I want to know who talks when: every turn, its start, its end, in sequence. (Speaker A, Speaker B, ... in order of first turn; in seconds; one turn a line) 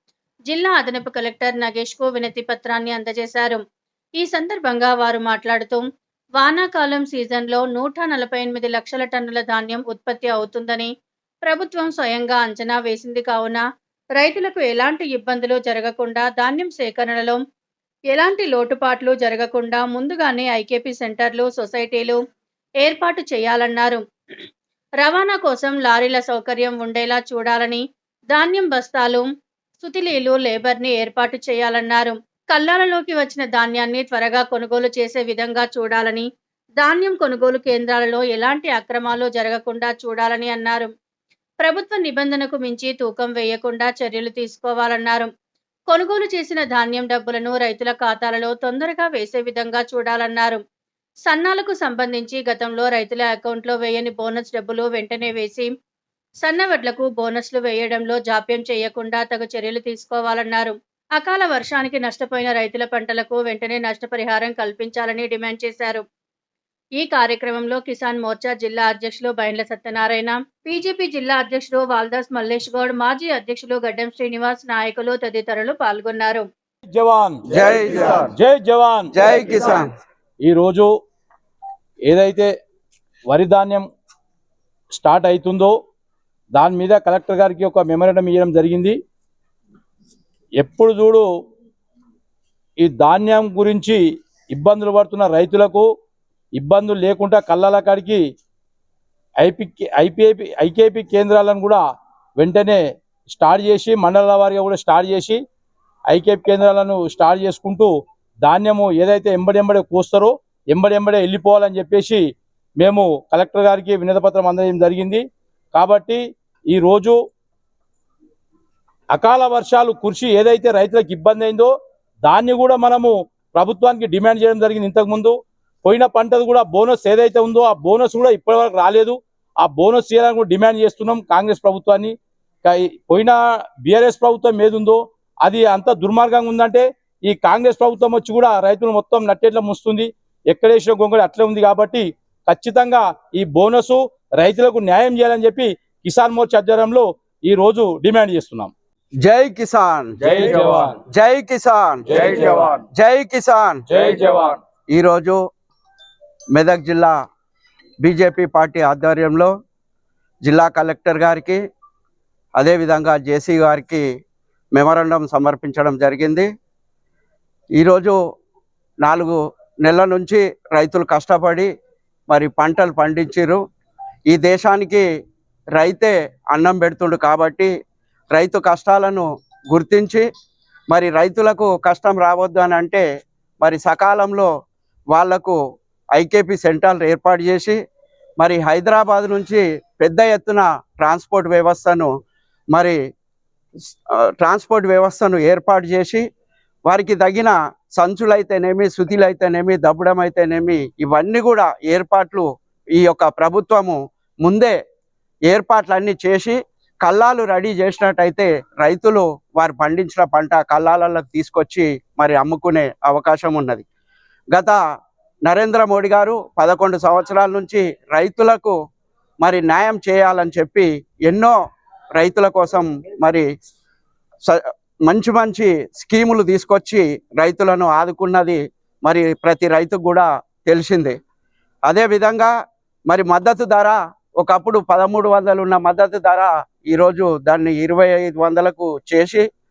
Speaker A: 0.5-3.6
Speaker A: 4.2-5.8
Speaker A: 6.4-10.9
Speaker A: 11.4-13.6
Speaker A: 14.2-17.4
Speaker A: 18.1-22.2
Speaker A: 22.8-24.0
Speaker A: 25.0-29.3
Speaker A: 29.8-36.2
Speaker A: 36.8-40.9
Speaker A: 41.6-45.3
Speaker A: 45.9-50.6
Speaker A: 51.2-55.7
Speaker A: 56.4-66.0
Speaker A: 67.0-76.5
Speaker B: 76.9-77.4
Speaker C: 77.5-78.3
Speaker B: 78.3-79.1
Speaker C: 79.1-79.9
Speaker B: 80.4-80.9
Speaker B: 82.0-82.5
Speaker B: 83.3-83.8
Speaker B: 84.9-85.7
Speaker B: 86.5-89.0
Speaker B: 90.6-91.2
Speaker B: 92.8-94.0
Speaker B: 94.5-95.8
Speaker B: 96.5-98.2
Speaker B: 99.4-101.8
Speaker B: 102.4-105.4
Speaker B: 106.1-107.9
Speaker B: 108.4-112.2
Speaker B: 112.8-116.2
Speaker B: 116.7-117.2
Speaker B: 119.1-121.7
Speaker B: 122.2-132.1
Speaker B: 132.6-148.7
Speaker C: 149.2-150.4
Speaker B: 150.2-151.0
Speaker C: 151.1-153.8
Speaker B: 152.1-152.8
Speaker B: 153.9-154.6
Speaker C: 154.9-155.4
Speaker C: 156.5-157.1
Speaker C: 158.0-159.5
Speaker C: 160.4-161.6
Speaker C: 162.6-164.0
Speaker C: 164.7-166.5
Speaker C: 167.8-168.2
Speaker C: 169.0-171.7
Speaker C: 172.3-173.6
Speaker C: 174.3-175.0
Speaker C: 175.8-177.7
Speaker C: 178.3-180.2
Speaker C: 180.9-183.0
Speaker C: 183.6-184.5
Speaker C: 185.1-185.6
Speaker C: 186.1-187.8
Speaker C: 188.4-192.1
Speaker C: 194.2-196.2
Speaker C: 196.9-204.8
Speaker C: 205.5-213.8
Speaker C: 215.4-218.7
Speaker C: 219.4-221.5
Speaker C: 222.2-223.4
Speaker C: 224.4-231.2
Speaker C: 231.9-232.5
Speaker C: 233.1-239.4